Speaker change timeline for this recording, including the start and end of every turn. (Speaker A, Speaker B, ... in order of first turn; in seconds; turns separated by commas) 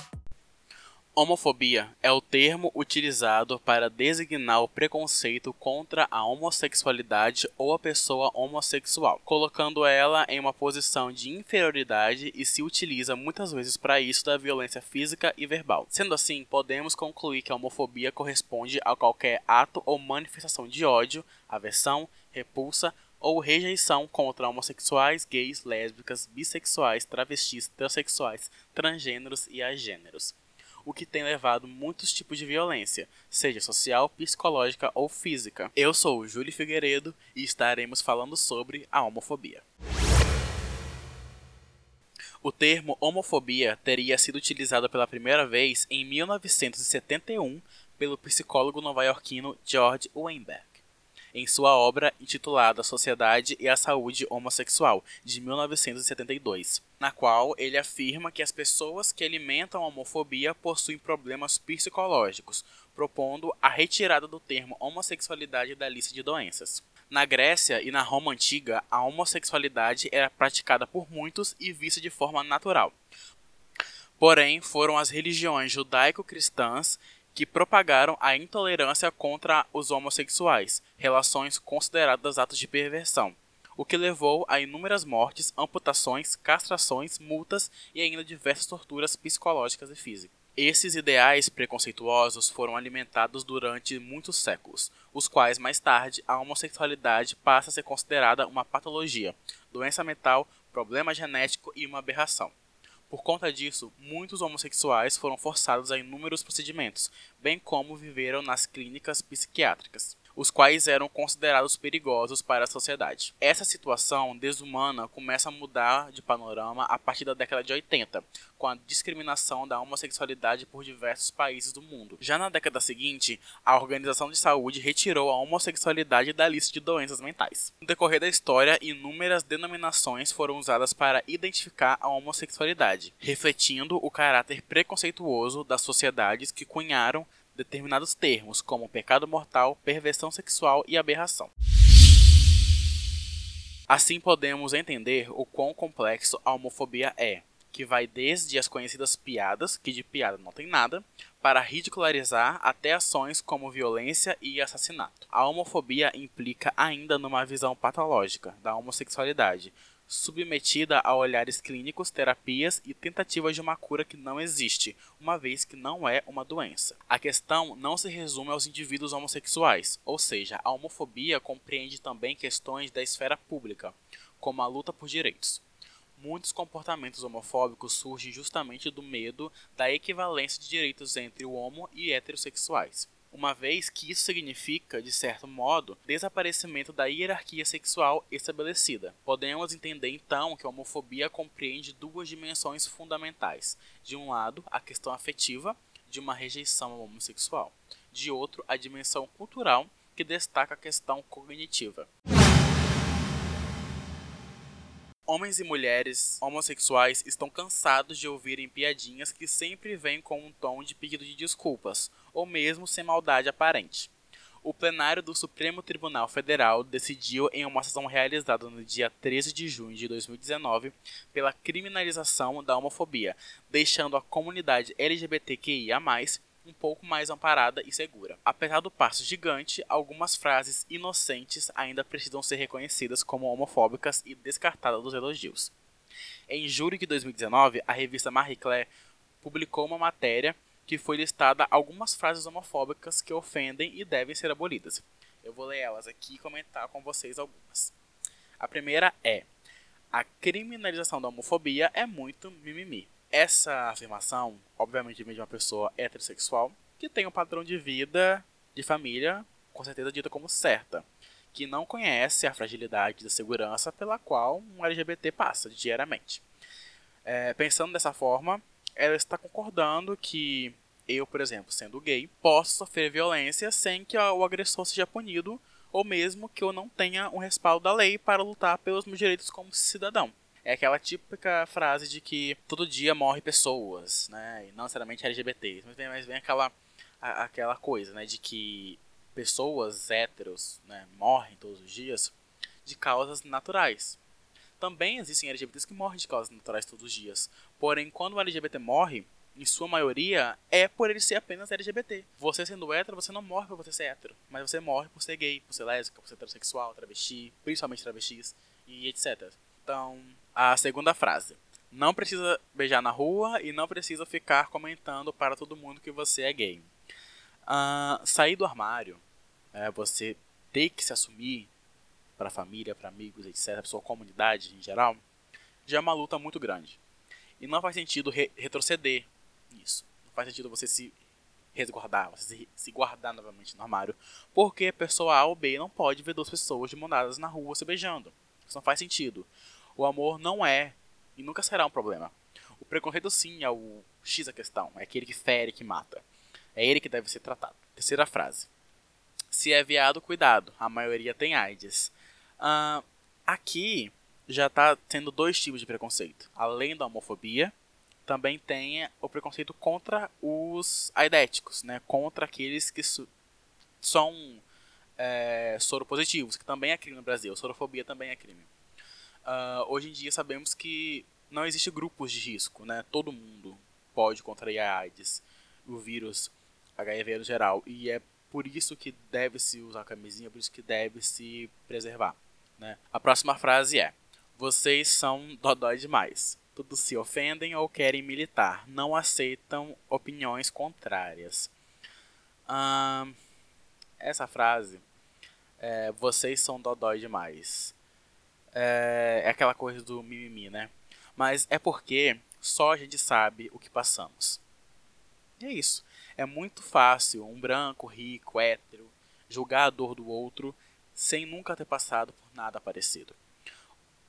Speaker A: 1.1-39.6, Speaker A: 42.4-50.8, Speaker A: 51.3-72.9, Speaker A: 74.2-102.5, Speaker A: 103.1-141.5, Speaker A: 143.9-175.6, Speaker A: 176.2-202.1, Speaker A: 205.3-214.1, Speaker A: 214.6-235.7, Speaker A: 236.5-238.9, Speaker A: 239.4-247.9, Speaker A: 248.6-249.5, Speaker A: 250.1-266.4, Speaker A: 267.2-294.2, Speaker A: 294.8-316.9, Speaker A: 317.7-319.2, Speaker A: 319.7-321.7, Speaker A: 322.4-325.2, Speaker A: 325.9-327.0, Speaker A: 327.6-331.1, Speaker A: 331.7-346.2, Speaker A: 346.8-348.7, Speaker A: 349.5-357.7, Speaker A: 358.2-363.3, Speaker A: 364.0-364.6, Speaker A: 365.2-368.7, Speaker A: 369.4-391.7, Speaker A: 392.7-393.4, Speaker A: 394.2-395.0, Speaker A: 395.8-397.9, Speaker A: 398.7-404.6, Speaker A: 405.6-413.4